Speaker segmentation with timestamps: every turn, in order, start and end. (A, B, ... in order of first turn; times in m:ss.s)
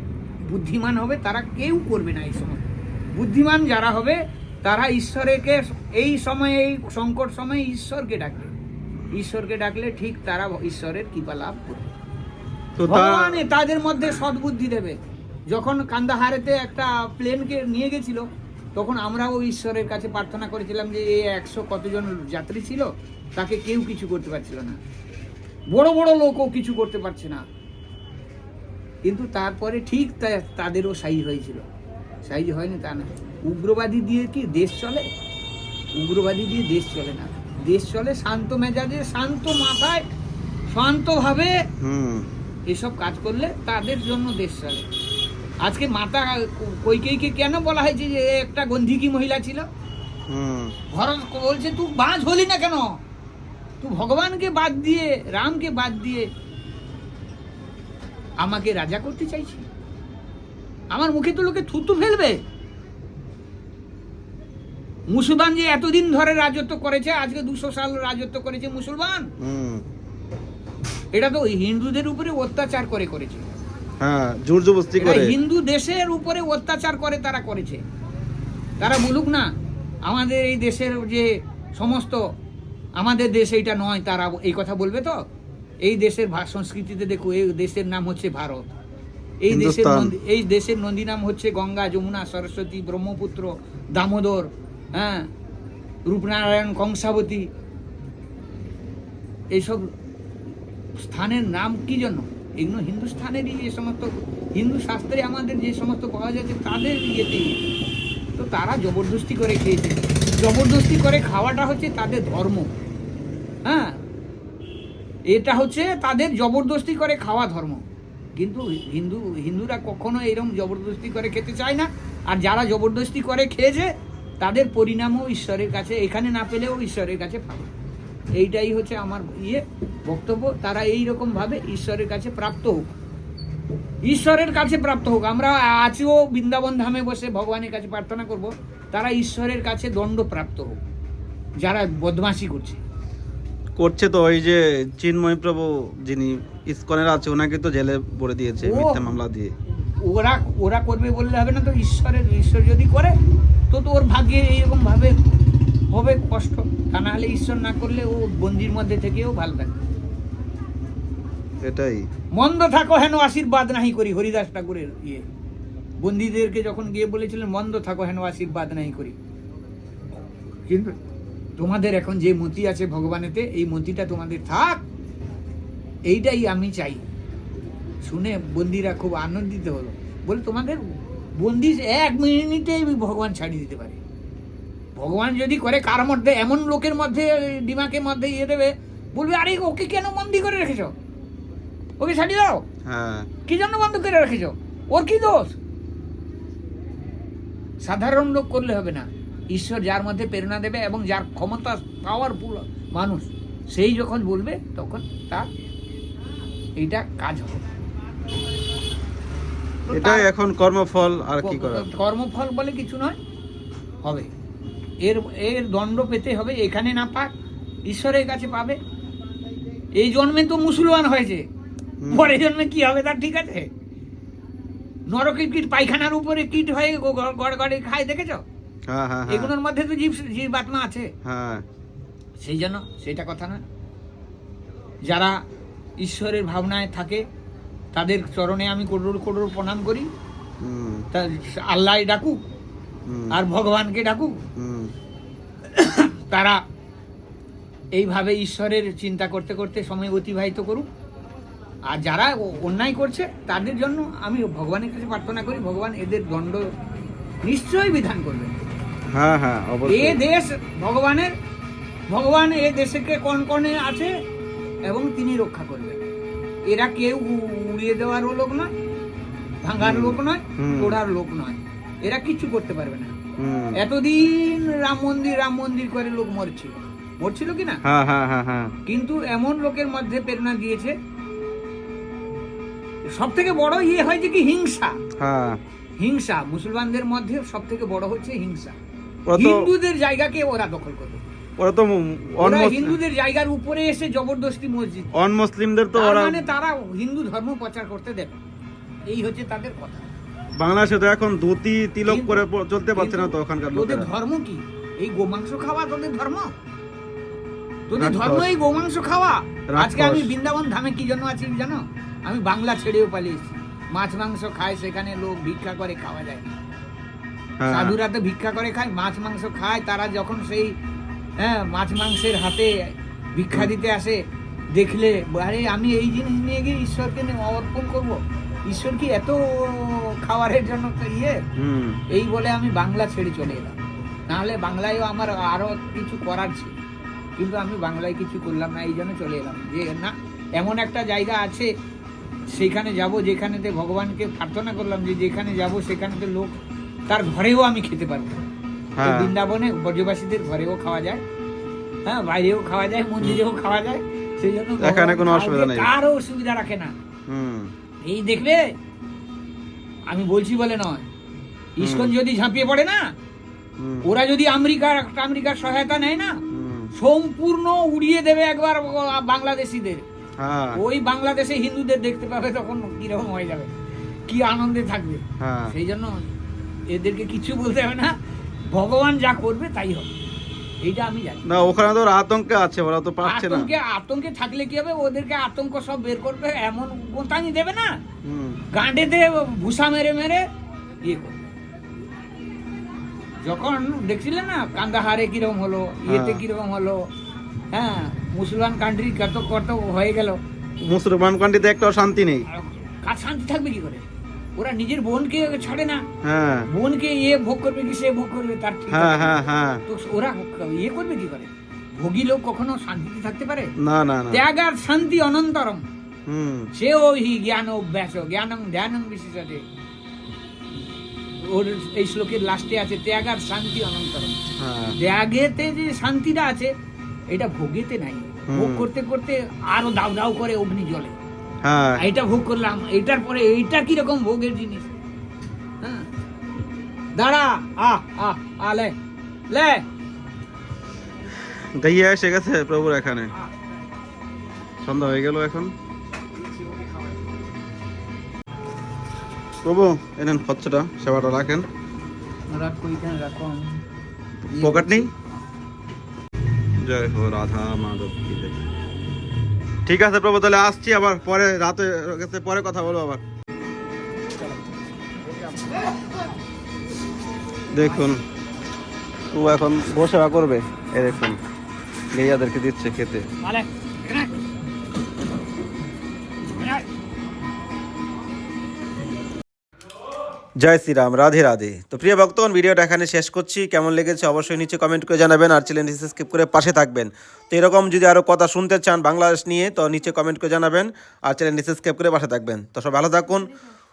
0:00.4-0:08.5 A
0:09.1-0:11.9 A
0:12.8-0:13.4 B
0:12.9-0:15.0 A
0:15.5-0:24.8 A
0:25.7-0:27.4 A
0:29.0-0:31.6 A
0:32.2-0:35.0 A
0:35.9-0:40.0 A
0:40.7-0:41.6 A
0:41.8-0:42.3 B
0:42.7-0:44.9 A
0:45.6-0:49.7 A
0:50.3-0:50.7 B
0:50.9-0:52.9 A
0:53.8-0:56.3 A
0:58.4-0:59.6 A
1:00.9-1:02.4 A
1:05.1-1:09.3 A
1:09.4-1:09.8 B
1:11.1-1:13.5 A
1:14.0-1:15.4 B
1:15.0-1:17.8 A
1:18.8-1:19.5 A
1:20.0-1:22.2 A
1:23.0-1:25.2 A
1:25.8-1:28.7 A
1:29.4-1:35.3 A
1:29.5-1:30.1 B
1:36.1-1:37.5 A
1:39.5-1:39.9 A
1:41.0-1:47.6 A
1:48.4-1:52.7 A
1:53.6-1:54.0 A
1:55.3-1:57.8 A
1:58.4-2:07.7 A
2:08.4-2:12.9 A
2:14.0-2:20.8 A
2:21.6-2:22.8 A
2:23.8-2:29.5 B
2:28.6-2:29.1 A
2:30.0-2:33.1 A
2:33.7-2:35.4 A
2:35.9-2:39.8 A
2:41.6-2:42.0 B
2:42.3-2:45.2 A
2:46.0-2:49.2 A
2:50.7-2:51.0 A
2:51.6-2:54.8 A
2:56.1-2:57.0 A
2:58.0-3:00.8 A
3:01.4-3:04.0 A
3:05.0-3:10.9 A
3:12.0-3:12.6 A
3:12.8-3:13.3 B
3:13.5-3:15.6 A
3:17.8-3:25.5 A
3:26.8-3:27.6 A
3:29.9-3:30.3 A
3:29.9-3:31.9 B
3:31.4-3:33.2 A
3:35.0-3:37.3 A
3:37.9-3:38.8 A
3:39.9-3:41.4 A
3:42.0-3:42.3 B
3:42.1-3:43.7 A
3:45.1-3:48.4 A
3:48.9-3:49.5 B
3:49.3-3:51.1 A
3:51.2-3:51.6 B
3:52.4-3:53.6 A
3:55.1-3:55.4 A
3:56.0-3:57.2 A
3:57.9-4:00.1 A
4:00.6-4:01.1 B
4:01.1-4:02.4 A
4:03.1-4:03.3 B
4:03.3-4:04.4 A
4:04.6-4:04.9 B
4:05.7-4:06.6 A
4:07.9-4:10.9 A
4:11.9-4:16.7 A
4:17.4-4:18.5 A
4:19.1-4:20.2 B
4:19.9-4:21.3 A
4:22.1-4:24.1 A
4:24.8-4:26.0 A
4:26.7-4:28.7 A
4:29.6-4:33.2 A
4:29.8-4:31.0 B
4:33.4-4:33.8 B
4:33.7-4:37.8 A
4:37.8-4:38.7 B
4:38.8-4:41.0 A
4:43.1-4:45.0 A
4:45.2-4:45.6 B
4:46.0-4:48.8 A
4:49.2-4:49.7 B
4:49.4-4:51.2 A
4:51.6-4:53.0 B
4:52.4-4:55.1 A
4:55.1-4:56.4 B
4:55.9-4:58.4 A
4:59.1-5:00.1 A
5:00.6-5:04.1 B
5:02.1-5:02.4 A
5:03.0-5:06.5 A
5:07.9-5:16.5 A
5:08.0-5:08.5 B
5:09.7-5:10.3 B
5:17.6-5:18.0 B
5:17.7-5:20.8 A
5:21.4-5:31.4 A
5:31.6-5:32.0 B
5:32.1-5:36.7 A
5:37.4-5:41.7 A
5:42.5-5:46.5 A
5:47.1-5:48.4 A
5:49.0-5:49.3 B
5:49.0-5:51.2 A
5:52.0-5:56.9 A
5:54.8-5:55.9 B
5:57.3-5:57.7 B
5:58.0-5:58.7 A
6:00.1-6:01.0 A
6:01.8-6:03.0 A
6:01.8-6:02.1 B
6:03.8-6:04.1 B
6:04.0-6:06.4 A
6:06.5-6:06.9 B
6:06.9-6:10.0 A
6:10.4-6:10.8 B
6:10.7-6:13.7 A
6:14.3-6:16.2 A
6:15.4-6:15.7 B
6:16.9-6:18.2 A
6:18.7-6:20.1 A
6:20.8-6:21.4 A
6:21.4-6:23.7 B
6:23.2-6:28.0 A
6:28.2-6:28.6 B
6:28.7-6:30.4 A
6:31.0-6:31.4 A
6:33.4-6:37.0 A
6:36.1-6:36.4 B
6:37.7-6:40.4 A
6:40.8-6:42.4 B
6:42.5-6:44.0 A
6:44.6-6:46.0 A
6:46.2-6:46.7 B
6:46.7-6:53.7 A
6:48.9-6:49.8 B
6:53.8-6:54.4 B
6:54.3-6:55.8 A
6:56.3-6:56.7 B
6:56.7-6:59.6 A
7:01.4-7:04.4 A
7:04.6-7:05.0 B
7:05.0-7:06.7 A
7:07.3-7:11.2 A
7:08.5-7:08.9 B
7:11.6-7:12.0 B
7:12.0-7:14.9 A
7:15.8-7:16.1 A
7:17.2-7:18.9 A
7:19.5-7:19.8 A
7:21.5-7:23.3 B
7:24.8-7:25.7 B
7:29.6-7:31.7 B
7:32.5-7:33.8 A
7:34.5-7:35.1 A
7:34.5-7:35.1 B
7:36.8-7:38.6 B
7:39.8-7:43.2 B
7:47.7-7:48.2 B
7:49.3-7:51.4 B
7:52.1-7:53.3 B
7:53.4-7:54.3 A
7:56.6-7:56.8 A
8:00.6-8:13.5 B